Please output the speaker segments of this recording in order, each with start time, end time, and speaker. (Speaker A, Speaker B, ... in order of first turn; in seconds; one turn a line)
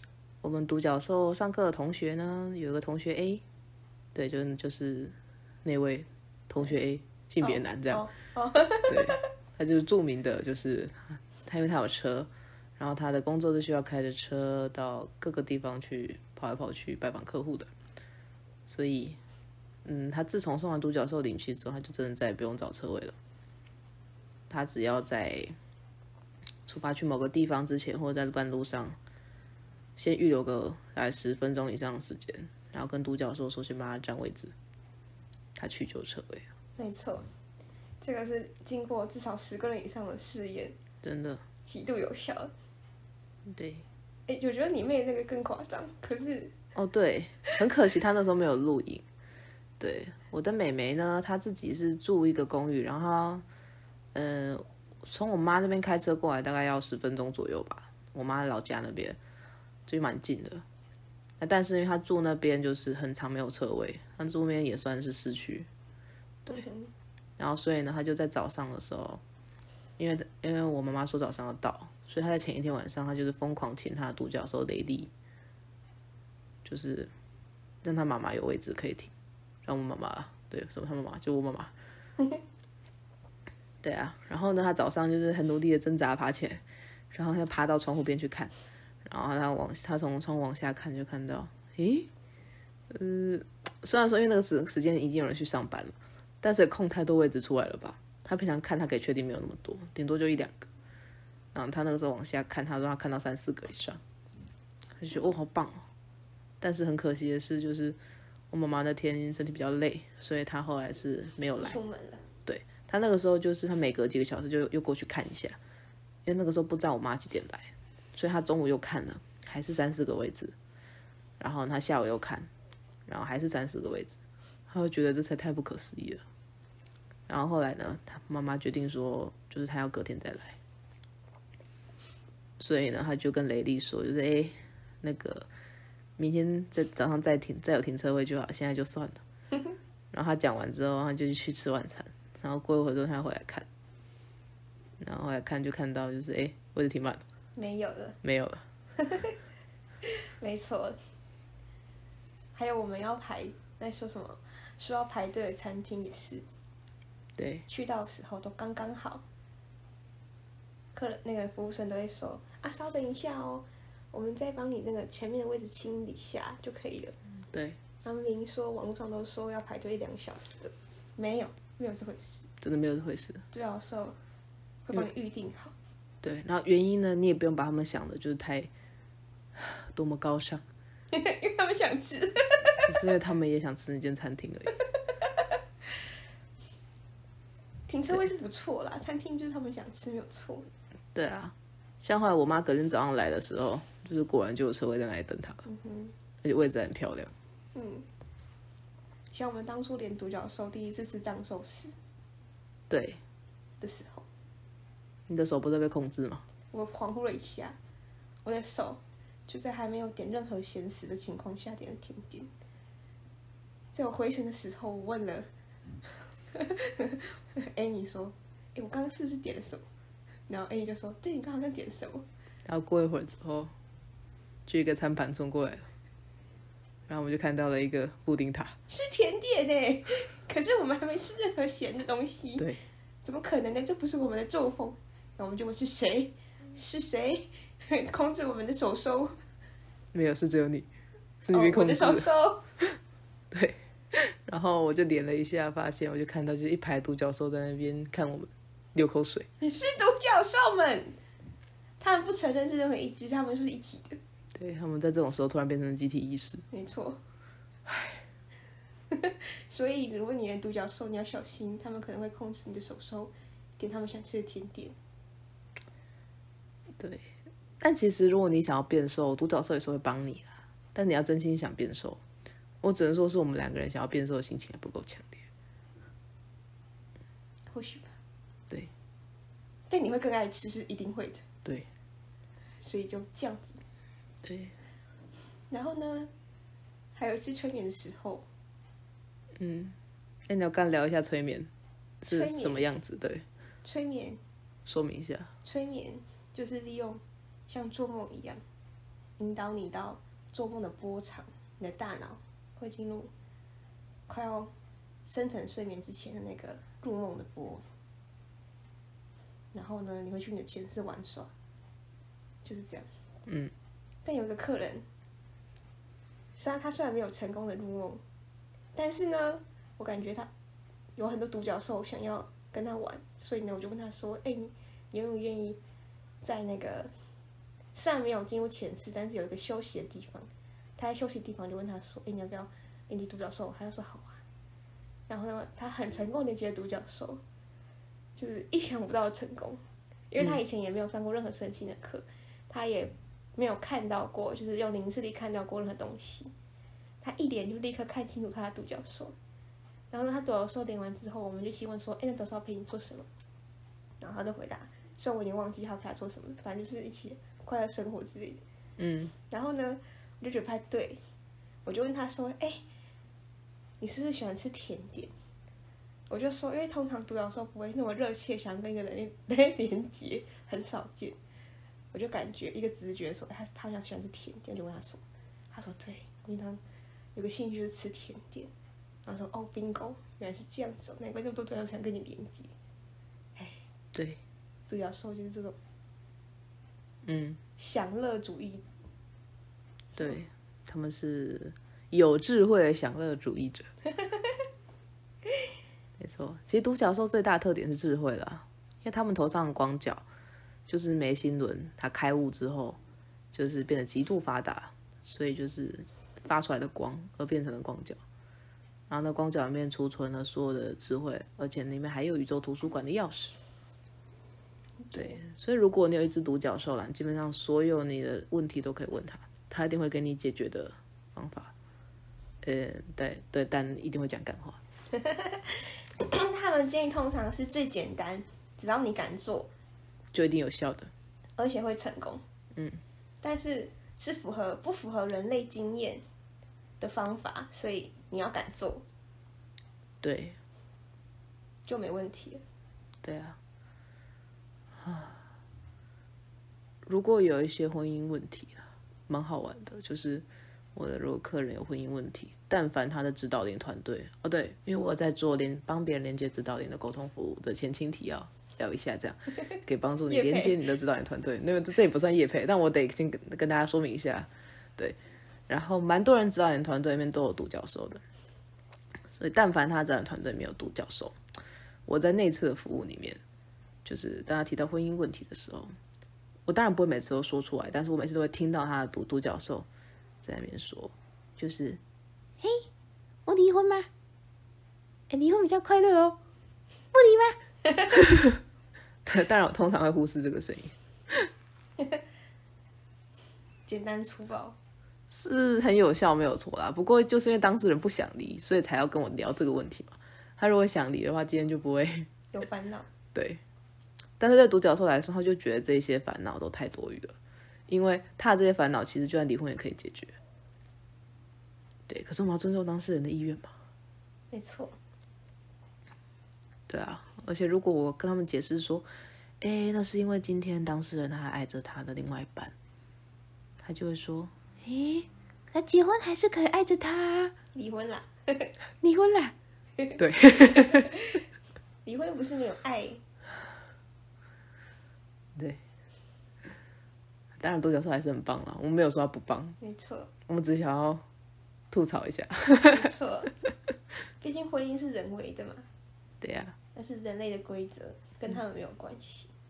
Speaker A: 0.4-3.4
Speaker A: 4.2-8.1
Speaker B: 7.4-9.2
Speaker A: 8.9-17.7
Speaker A: 18.7-19.2
Speaker A: 19.9-23.1
Speaker A: 24.5-25.6
Speaker A: 26.7-29.0
Speaker A: 30.0-34.5
Speaker A: 35.6-36.5
Speaker B: 36.8-37.3
Speaker B: 38.0-40.8
Speaker A: 41.0-41.4
Speaker B: 41.6-42.5
Speaker A: 43.5-43.9
Speaker B: 44.3-46.5
Speaker A: 46.8-49.0
Speaker A: 49.8-53.5
Speaker A: 54.1-59.2
Speaker A: 59.9-60.6
Speaker A: 61.4-65.7
Speaker B: 66.5-66.9
Speaker A: 67.4-69.2
Speaker A: 70.0-75.1
Speaker A: 76.7-77.1
Speaker A: 77.8-79.1
Speaker A: 79.7-81.7
Speaker A: 83.8-88.5
Speaker A: 89.0-92.1
Speaker A: 92.9-100.7
Speaker A: 101.5-104.0
Speaker A: 105.0-105.8
Speaker A: 106.6-108.0
Speaker A: 108.5-111.8
Speaker B: 111.6-112.2
Speaker A: 112.5-115.6
Speaker A: 116.3-120.5
Speaker A: 121.4-122.5
Speaker A: 123.1-126.2
Speaker A: 127.3-130.6
Speaker A: 132.6-135.5
Speaker A: 136.2-139.2
Speaker A: 140.1-143.7
Speaker A: 145.0-147.2
Speaker B: 147.6-148.2
Speaker A: 148.2-148.6
Speaker B: 149.0-149.4
Speaker B: 150.0-151.0
Speaker B: 152.5-156.5
Speaker A: 157.4-157.7
Speaker B: 157.7-159.2
Speaker B: 160.9-167.2
Speaker A: 167.5-167.8
Speaker B: 168.0-172.5
Speaker A: 172.6-173.4
Speaker B: 173.5-174.2
Speaker B: 174.9-175.8
Speaker A: 176.2-178.7
Speaker A: 179.6-180.6
Speaker B: 181.1-182.8
Speaker A: 182.8-184.8
Speaker B: 187.9-190.7
Speaker A: 191.1-195.7
Speaker B: 195.7-196.1
Speaker A: 196.4-197.3
Speaker B: 197.7-198.1
Speaker B: 199.3-201.9
Speaker A: 202.9-203.2
Speaker B: 203.8-204.3
Speaker A: 205.3-206.4
Speaker B: 206.7-207.8
Speaker B: 208.4-212.5
Speaker B: 213.9-215.5
Speaker B: 216.5-219.8
Speaker B: 220.5-222.3
Speaker A: 222.7-223.7
Speaker A: 224.7-225.9
Speaker A: 227.1-228.8
Speaker B: 228.9-232.7
Speaker B: 233.2-239.4
Speaker A: 240.1-240.9
Speaker A: 241.4-242.3
Speaker B: 241.5-242.6
Speaker A: 243.5-249.5
Speaker B: 249.6-251.2
Speaker B: 252.0-254.2
Speaker A: 254.6-256.6
Speaker B: 256.7-257.2
Speaker A: 257.9-258.2
Speaker B: 259.1-265.0
Speaker A: 267.0-272.2
Speaker A: 272.8-275.5
Speaker B: 277.7-278.2
Speaker B: 279.9-281.4
Speaker B: 282.8-283.8
Speaker A: 284.4-284.7
Speaker B: 285.7-286.3
Speaker B: 287.1-288.5
Speaker A: 289.6-289.9
Speaker A: 290.5-291.7
Speaker A: 292.2-293.4
Speaker B: 292.2-292.8
Speaker B: 293.8-294.4
Speaker A: 294.9-295.5
Speaker B: 295.6-298.6
Speaker B: 299.4-303.3
Speaker B: 304.3-304.7
Speaker B: 305.3-307.8
Speaker B: 309.7-311.5
Speaker B: 312.6-313.1
Speaker A: 313.5-313.7
Speaker B: 314.2-315.1
Speaker B: 316.6-318.2
Speaker B: 318.9-320.5
Speaker B: 321.2-325.8
Speaker B: 326.4-327.1
Speaker B: 327.9-334.4
Speaker B: 335.3-337.4
Speaker B: 338.4-346.5
Speaker B: 347.2-349.4
Speaker B: 350.1-353.3
Speaker B: 354.2-358.6
Speaker A: 359.0-359.3
Speaker B: 359.5-361.2
Speaker B: 361.9-362.8
Speaker B: 364.0-365.3
Speaker B: 366.3-371.4
Speaker B: 372.1-376.8
Speaker B: 377.4-378.7
Speaker B: 379.2-382.7
Speaker B: 383.6-383.8
Speaker A: 384.1-384.4
Speaker B: 384.9-385.8
Speaker A: 387.2-387.6
Speaker B: 387.8-388.8
Speaker B: 390.1-390.4
Speaker A: 390.2-393.9
Speaker A: 396.2-400.2
Speaker A: 400.9-403.0
Speaker A: 403.5-408.2
Speaker A: 409.1-413.6
Speaker B: 415.1-415.4
Speaker A: 415.1-421.7
Speaker A: 422.6-424.8
Speaker B: 425.1-429.7
Speaker A: 430.3-431.1
Speaker B: 431.6-432.4
Speaker A: 432.8-433.0
Speaker B: 433.4-436.2
Speaker B: 437.0-439.1
Speaker A: 440.2-440.6
Speaker B: 441.9-442.6
Speaker A: 443.2-443.6
Speaker A: 445.0-445.4
Speaker A: 447.1-465.2
Speaker B: 460.3-460.8
Speaker A: 465.7-468.2
Speaker A: 469.3-471.4
Speaker A: 472.1-473.4
Speaker A: 474.1-475.9
Speaker A: 476.7-479.9
Speaker A: 480.4-482.0
Speaker C: 482.6-482.9
Speaker C: 483.5-484.1
Speaker C: 485.3-486.4
Speaker C: 487.1-487.6
Speaker A: 488.2-488.6
Speaker A: 489.2-491.5
Speaker B: 493.9-494.8
Speaker A: 495.3-502.3
Speaker B: 502.5-503.1
Speaker A: 503.3-503.6
Speaker A: 504.4-507.4
Speaker A: 507.9-510.4
Speaker A: 512.1-513.7
Speaker B: 514.5-515.0
Speaker A: 516.9-519.1
Speaker A: 519.6-522.7
Speaker A: 523.8-524.5
Speaker C: 524.8-527.5
Speaker B: 527.7-528.7
Speaker C: 529.0-529.5
Speaker A: 530.2-531.2
Speaker B: 530.8-531.1
Speaker B: 532.0-533.2
Speaker A: 537.6-539.8
Speaker B: 539.8-540.3
Speaker A: 540.5-541.2
Speaker A: 541.9-543.1
Speaker B: 542.9-543.5
Speaker B: 544.4-545.9
Speaker A: 546.4-546.8
Speaker B: 547.0-549.5